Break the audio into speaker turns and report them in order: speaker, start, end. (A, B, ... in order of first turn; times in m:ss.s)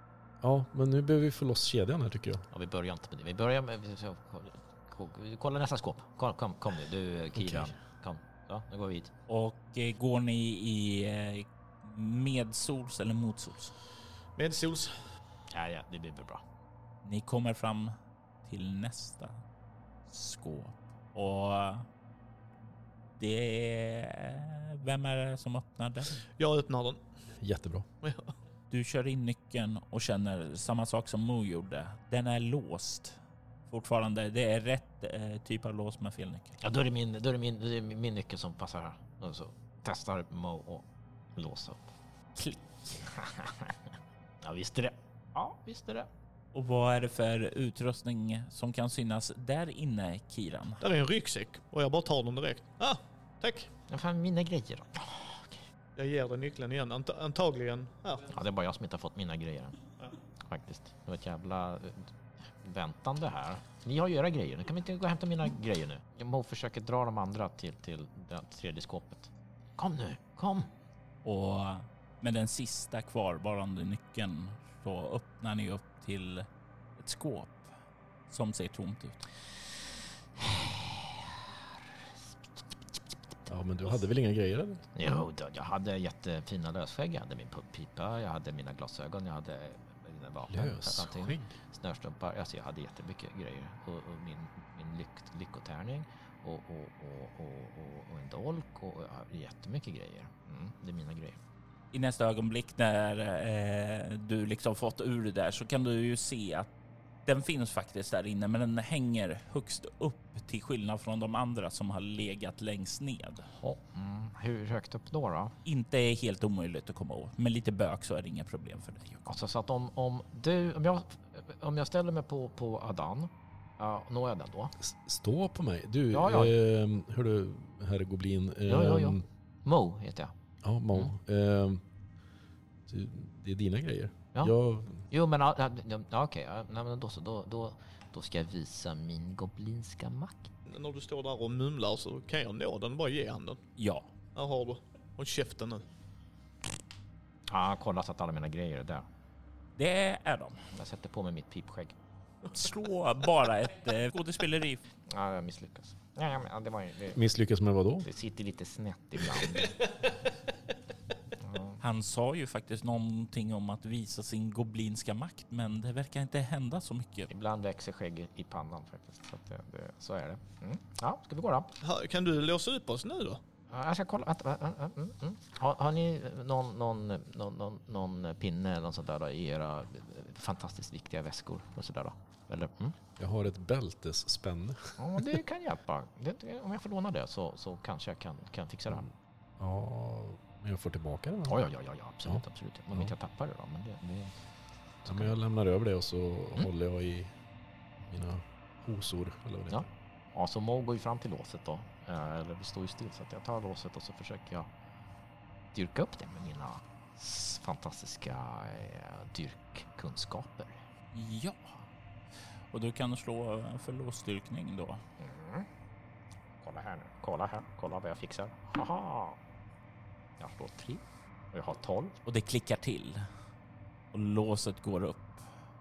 0:00.4-0:02.5 A
0:02.5-0:09.1 B
0:07.4-0:07.8 A
0:09.3-0:13.7 C
0:14.4-0:15.2 D
0:15.5-0:16.4 B
0:17.0-0:19.4 C
0:20.1-0:21.9 C
0:23.2-0:26.2 C
0:26.4-0:27.0 D
0:27.4-0:27.9 A
0:28.0-0:28.4 D
0:28.7-0:36.6 C
0:36.6-0:41.9 B
0:42.4-0:43.1 C
0:43.1-0:43.8 B
0:44.4-0:46.1 B
0:46.5-0:50.8 C
0:50.8-0:53.7 D
0:53.9-0:55.6 B
0:56.0-0:58.3 D
0:58.3-0:59.8 B
1:00.4-1:10.7 B
1:11.2-1:16.5 C
1:17.0-1:17.8 C
1:18.3-1:19.3 C
1:20.4-1:21.4 B
1:23.5-1:24.9 A
1:25.0-1:41.4 B
1:30.5-1:31.5 A
1:41.9-1:46.7 C
1:47.3-1:53.5 C
1:53.6-1:55.6 B
1:55.6-1:59.4 C
1:59.3-2:04.8 B
2:04.8-2:09.2 A
2:06.1-2:06.5 B
2:08.7-2:10.3 B
2:10.6-2:11.8 A
2:12.9-2:15.0 A
2:15.1-2:20.5 B
2:20.7-2:23.6 D
2:23.8-2:24.1 C
2:24.4-2:25.9 D
2:27.5-2:29.1 B
2:29.8-2:30.6 C
2:30.7-2:32.0 B
2:32.5-2:34.8 C
2:35.1-2:37.2 B
2:37.1-2:38.1 A
2:38.0-2:40.0 B
2:41.4-2:41.8 B
2:41.8-2:47.3 C
2:47.3-2:51.7 B
2:51.8-2:53.4 D
2:53.7-3:03.0 B
3:03.2-3:05.4 A
3:05.0-3:09.1 B
3:09.6-3:11.7 A
3:11.5-3:14.4 B
3:15.0-3:15.4 B
3:15.1-3:17.3 A
3:18.1-3:19.9 A
3:19.7-3:24.7 B
3:25.7-3:30.8 B
3:31.1-3:31.8 C
3:32.7-3:35.0 C
3:35.2-3:35.7 B
3:36.6-3:39.4 B
3:40.4-3:42.2 B
3:42.2-3:43.3 C
3:44.1-3:45.6 C